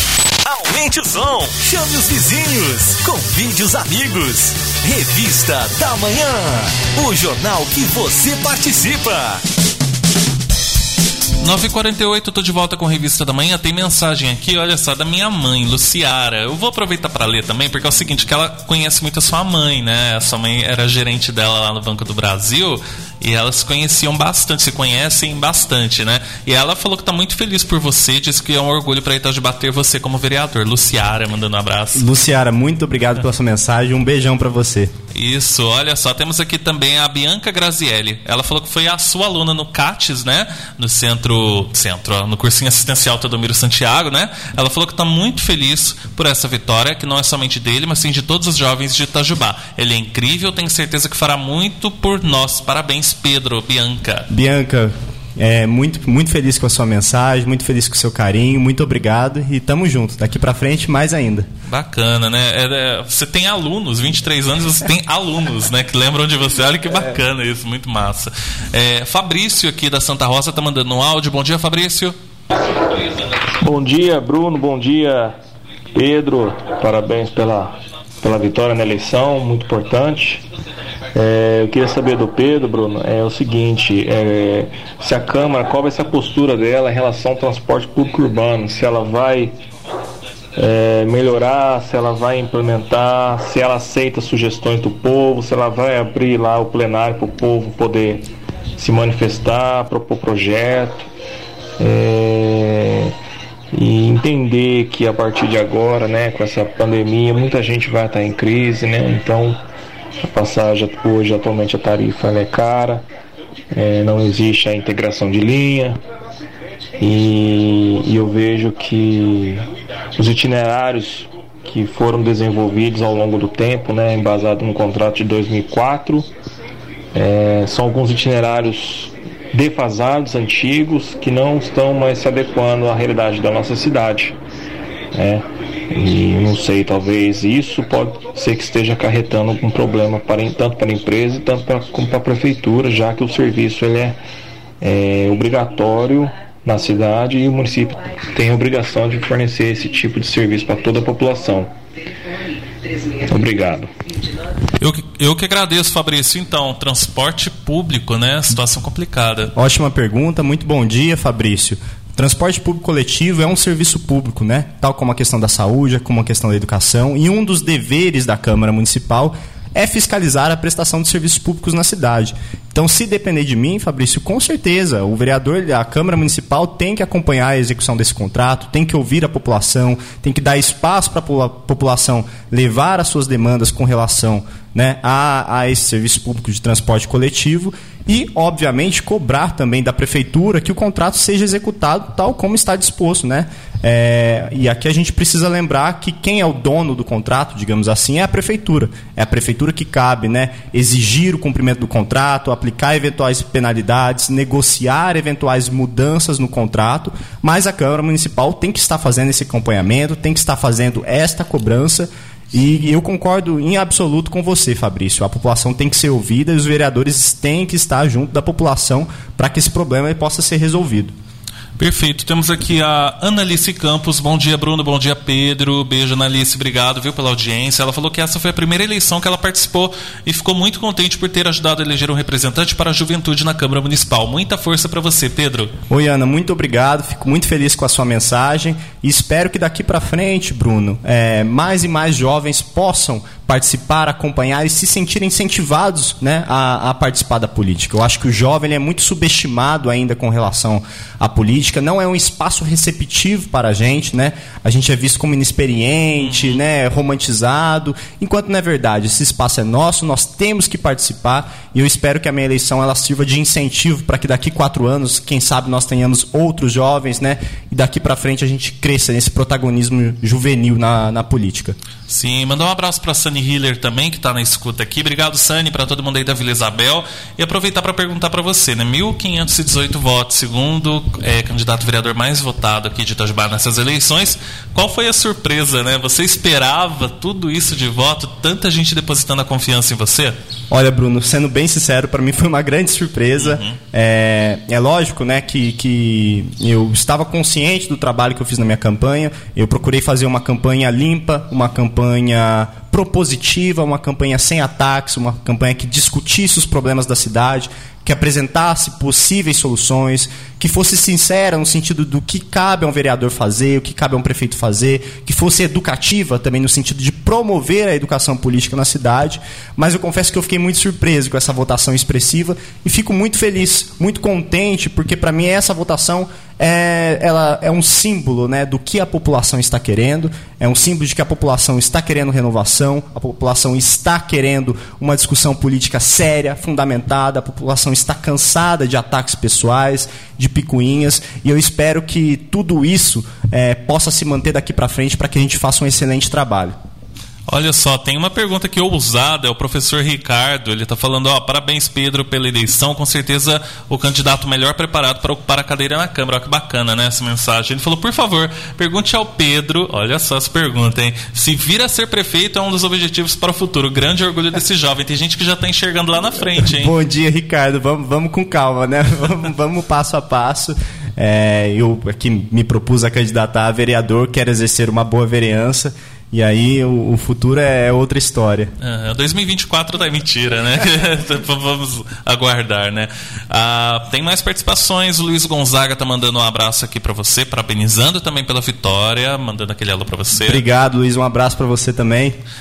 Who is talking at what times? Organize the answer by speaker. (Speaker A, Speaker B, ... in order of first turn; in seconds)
Speaker A: 0.4-9.4
Speaker B: 11.4-32.0, 35.1-54.3, 61.7-72.2, 154.8-159.5, 221.8-235.7, 256.2-256.6, 272.1-290.4, 293.4-293.8, 347.5-366.9, 378.8-390.6
Speaker C: 31.9-34.9, 54.3-61.5, 159.6-221.1, 235.9-271.8, 290.7-346.8, 366.6-378.7, 390.4-392.4
Speaker D: 73.6-75.4, 76.0-80.5, 81.1-89.5, 90.6-98.3, 98.8-101.1, 101.8-103.1, 103.7-109.6, 110.2-113.0, 113.7-116.0, 117.0-119.7, 120.2-126.3, 127.1-134.4, 135.1-144.2, 144.8-151.7, 153.1-153.9